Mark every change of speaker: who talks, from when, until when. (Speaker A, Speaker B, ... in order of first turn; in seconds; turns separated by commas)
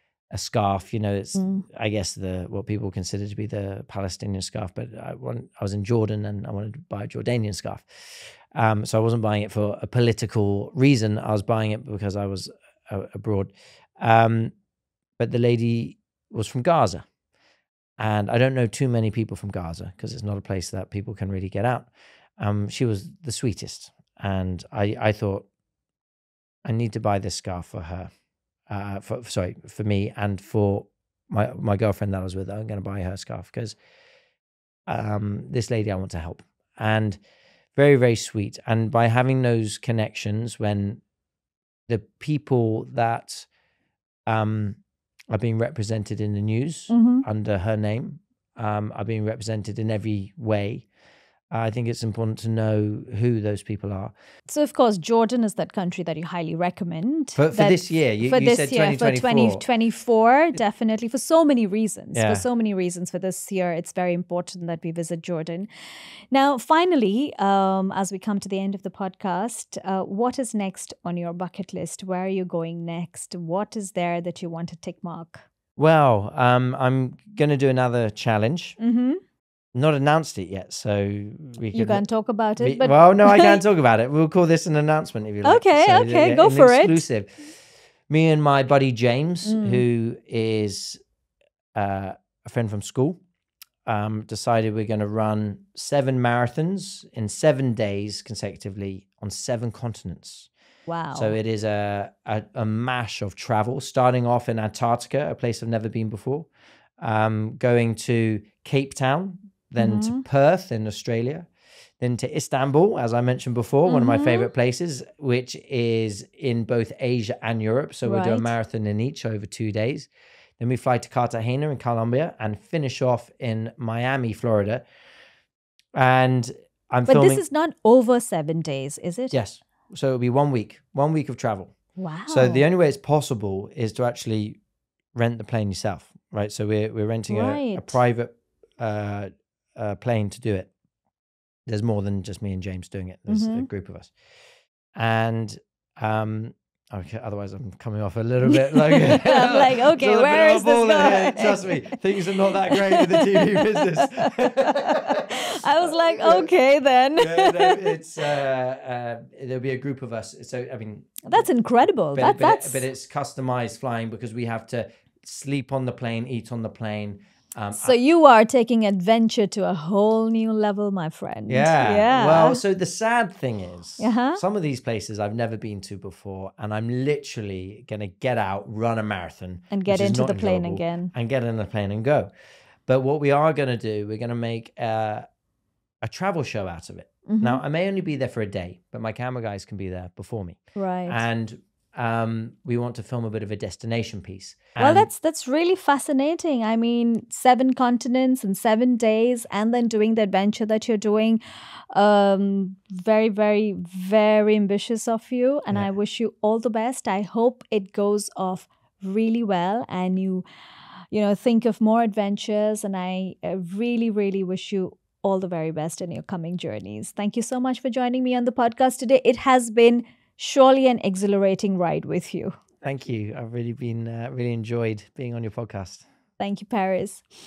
Speaker A: 0.3-14.5, Speaker B: 1.4-1.6, Speaker A: 15.2-17.1, Speaker A: 18.0-25.5, Speaker A: 26.6-28.1, Speaker A: 28.7-33.8, Speaker A: 34.9-37.2, Speaker A: 37.8-41.0, Speaker A: 41.9-43.5, Speaker A: 44.2-44.8, Speaker A: 45.3-50.9, Speaker B: 46.9-47.2, Speaker A: 51.5-54.1, Speaker B: 54.5-65.7, Speaker A: 57.3-59.6, Speaker A: 62.1-62.4, Speaker B: 66.3-75.4, Speaker A: 75.8-78.8, Speaker B: 78.8-79.2, Speaker A: 79.7-82.0, Speaker B: 81.7-83.6, Speaker A: 82.6-87.3, Speaker B: 85.4-87.0, Speaker A: 88.1-91.0, Speaker B: 89.4-89.8, Speaker A: 91.7-93.2, Speaker A: 93.8-100.5, Speaker B: 100.9-101.3, Speaker A: 101.1-106.5, Speaker A: 107.0-111.5, Speaker B: 109.8-110.2, Speaker A: 112.0-124.8, Speaker B: 113.9-114.5, Speaker B: 118.0-118.5, Speaker A: 125.9-127.4, Speaker B: 127.1-129.3, Speaker A: 129.3-131.7, Speaker B: 132.0-132.7, Speaker A: 132.3-134.6, Speaker A: 135.1-140.7, Speaker B: 137.3-138.0, Speaker A: 141.7-144.1, Speaker B: 143.3-143.7, Speaker A: 144.9-156.5, Speaker B: 148.4-158.0, Speaker A: 157.2-161.5, Speaker B: 161.2-162.8, Speaker A: 162.1-167.9, Speaker B: 167.8-172.6, Speaker A: 171.5-182.3, Speaker B: 174.0-174.4, Speaker B: 179.7-181.1, Speaker A: 182.9-185.2, Speaker A: 186.0-195.1, Speaker B: 187.3-187.6, Speaker B: 190.8-191.2, Speaker B: 194.8-201.4, Speaker B: 201.9-210.4, Speaker B: 211.1-222.6, Speaker A: 222.8-226.0, Speaker B: 226.4-227.2